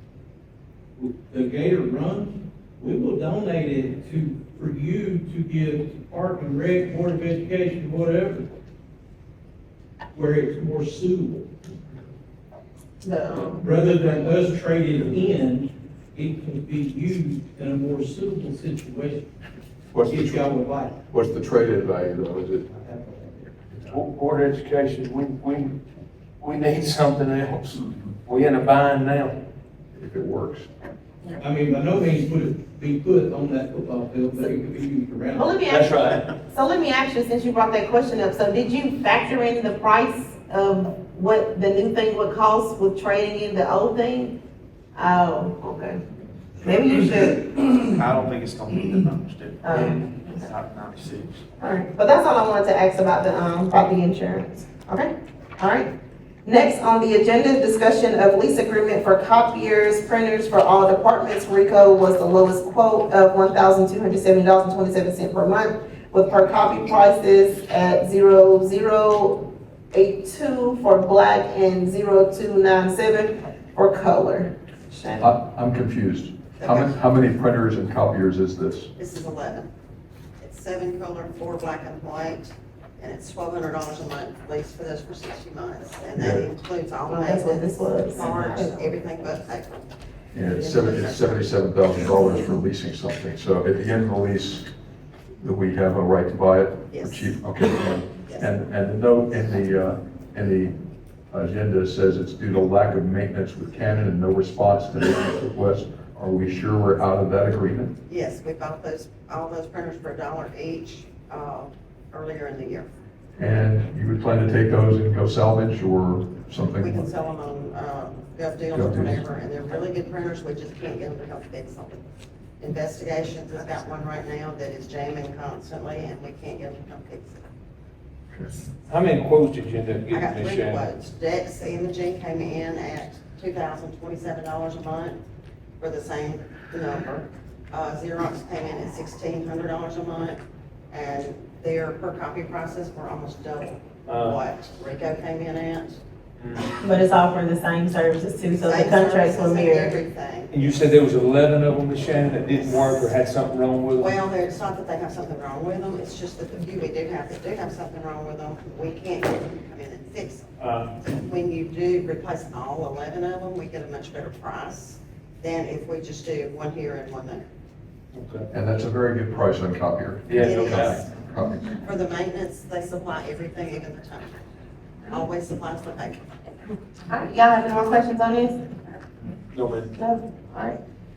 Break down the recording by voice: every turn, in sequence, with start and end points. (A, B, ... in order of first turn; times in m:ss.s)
0:01.0-0:08.5 A
0:10.1-0:11.5 A
0:13.0-0:13.6 B
0:13.6-0:19.3 A
0:19.9-0:22.7 C
0:20.0-0:21.0 A
0:22.8-0:23.3 A
0:23.9-0:25.8 D
0:26.4-0:29.4 D
0:30.0-0:30.7 C
0:31.4-0:35.6 A
0:35.4-0:44.4 B
0:35.7-0:36.3 D
0:45.0-0:46.0 B
0:46.6-0:48.1 B
0:48.0-0:51.4 E
0:49.6-0:50.4 B
0:51.6-0:55.9 B
0:56.4-1:15.3 B
1:15.2-1:18.9 C
1:16.6-1:17.0 F
1:19.0-1:19.7 F
1:20.4-1:31.5 F
1:26.2-1:26.5 C
1:27.1-1:28.9 B
1:30.3-1:34.7 C
1:35.4-1:40.8 C
1:36.9-1:37.4 F
1:38.3-1:38.5 F
1:41.3-1:47.9 C
1:48.1-1:52.9 F
1:53.4-1:57.1 C
1:56.8-2:02.0 F
1:58.7-1:59.2 C
2:02.6-2:07.4 F
2:08.9-2:10.8 D
2:10.1-2:15.2 F
2:15.8-2:20.4 F
2:20.9-2:26.0 F
2:24.1-2:24.4 D
2:26.4-2:26.7 D
2:26.8-2:30.0 B
2:28.6-2:30.5 F
2:30.5-2:34.1 D
2:32.5-2:33.1 F
2:34.0-2:40.5 F
2:40.6-2:41.0 D
2:41.1-2:47.5 F
2:48.1-2:48.5 D
2:48.5-2:51.8 C
2:50.3-2:51.0 D
2:50.3-2:51.1 F
2:51.8-2:54.4 F
2:55.1-2:56.5 F
2:57.1-2:58.6 B
2:59.5-2:59.9 D
3:00.0-3:00.8 B